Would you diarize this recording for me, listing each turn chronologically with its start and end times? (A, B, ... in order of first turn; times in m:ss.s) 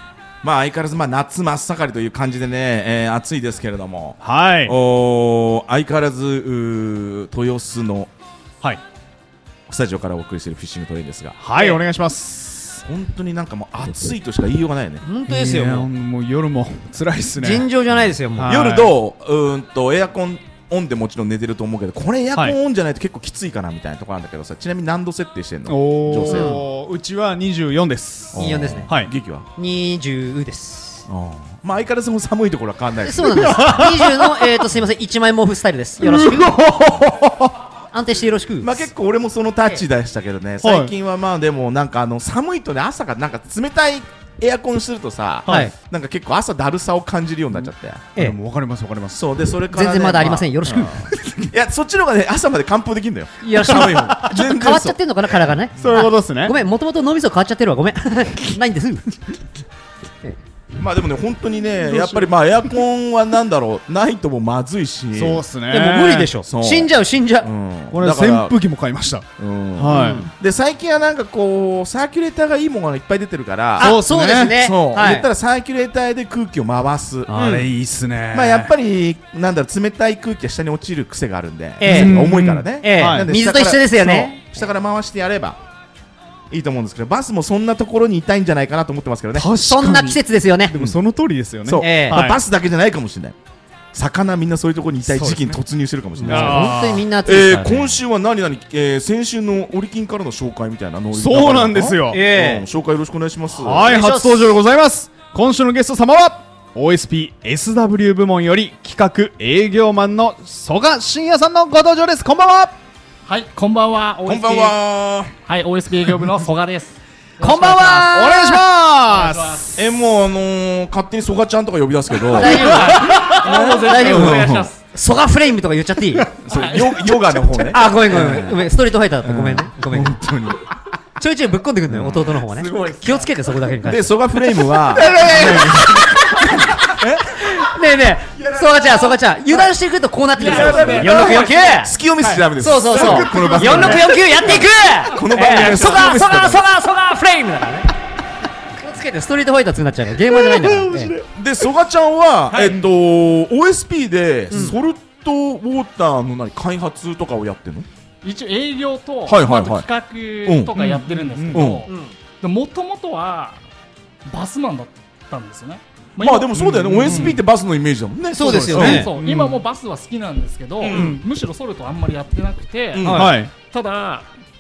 0:00.4-0:08.1 A
0:04.2-0:04.8 B
0:09.7-0:11.4 A
0:11.4-0:12.8 B
0:11.5-0:11.8 C
0:12.8-0:15.0 A
0:15.0-0:15.9 C
0:15.3-0:17.7 B
0:17.4-0:18.6 C
0:18.4-0:18.9 B
0:18.5-0:26.6 A
0:25.7-0:29.1 B
0:26.3-0:26.6 C
0:28.4-0:29.5 A
0:28.4-0:28.9 C
0:29.6-0:31.0 C
0:31.1-0:33.6 A
0:33.0-0:36.6 C
0:33.4-0:34.3 B
0:36.0-0:37.5 B
0:37.9-0:38.9 C
0:38.6-0:48.1 A
0:40.6-0:40.9 B
0:45.5-0:45.7 B
0:45.5-0:45.7 C
0:48.2-0:49.2 B
0:49.1-0:55.0 A
0:49.7-0:51.1 C
0:51.1-0:51.4 B
0:53.4-0:59.4 C
0:53.7-0:54.3 B
0:55.8-0:56.6 B
1:00.8-1:05.5 A
1:05.2-1:06.3 B
1:05.7-1:07.5 C
1:06.5-1:08.6 A
1:07.9-1:10.3 B
1:09.4-1:17.3 A
1:09.9-1:10.3 C
1:13.8-1:15.3 C
1:13.8-1:14.6 B
1:17.3-1:18.7 B
1:17.3-1:17.7 C
1:18.3-1:25.6 A
1:21.8-1:24.5 C
1:21.8-1:23.3 B
1:26.5-1:29.5 A
1:29.4-1:32.4 B
1:29.6-1:30.7 C
1:31.6-1:33.4 A
1:31.8-1:32.2 C
1:33.9-1:44.0 A
1:35.1-1:35.6 B
1:36.2-1:38.0 C
1:36.2-1:37.0 B
1:41.1-1:42.2 B
1:42.1-1:42.7 C
1:43.5-1:52.8 B
1:43.8-1:44.5 C
1:53.3-1:54.8 D
1:54.3-1:55.3 A
1:55.4-1:58.1 D
1:57.4-1:58.6 C
1:57.5-1:59.8 B
1:59.1-1:59.7 D
1:59.8-2:04.7 A
2:02.2-2:06.3 C
2:02.5-2:04.8 D
2:06.4-2:06.7 B
2:06.4-2:08.6 A
2:06.5-2:06.8 D
2:07.7-2:10.2 C
2:09.2-2:10.7 A
2:11.2-2:14.1 C
2:11.9-2:12.4 A
2:12.6-2:13.2 D
2:13.8-2:16.0 A
2:14.7-2:21.9 C
2:15.3-2:15.8 B
2:16.8-2:17.4 A
2:20.4-2:21.7 D
2:20.4-2:26.7 A
2:22.6-2:27.9 C
2:22.9-2:24.2 B
2:25.1-2:25.7 D
2:28.8-2:31.1 C
2:30.4-2:31.2 B
2:31.3-2:37.9 A
2:32.5-2:32.9 D
2:38.2-2:43.6 D
2:39.3-2:39.9 A
2:40.4-2:41.0 A
2:40.8-2:41.7 B
2:41.5-2:41.9 A
2:41.9-2:42.2 C
2:44.3-2:47.4 D
2:46.2-2:49.1 A
2:46.6-2:47.4 B
2:48.4-2:49.1 C
2:48.5-2:54.3 D
2:48.5-2:49.6 B
2:50.8-2:51.2 A
2:50.9-2:51.2 C
2:50.9-2:51.2 B
2:52.9-2:53.4 A
2:53.0-2:53.3 C
2:53.1-2:53.5 B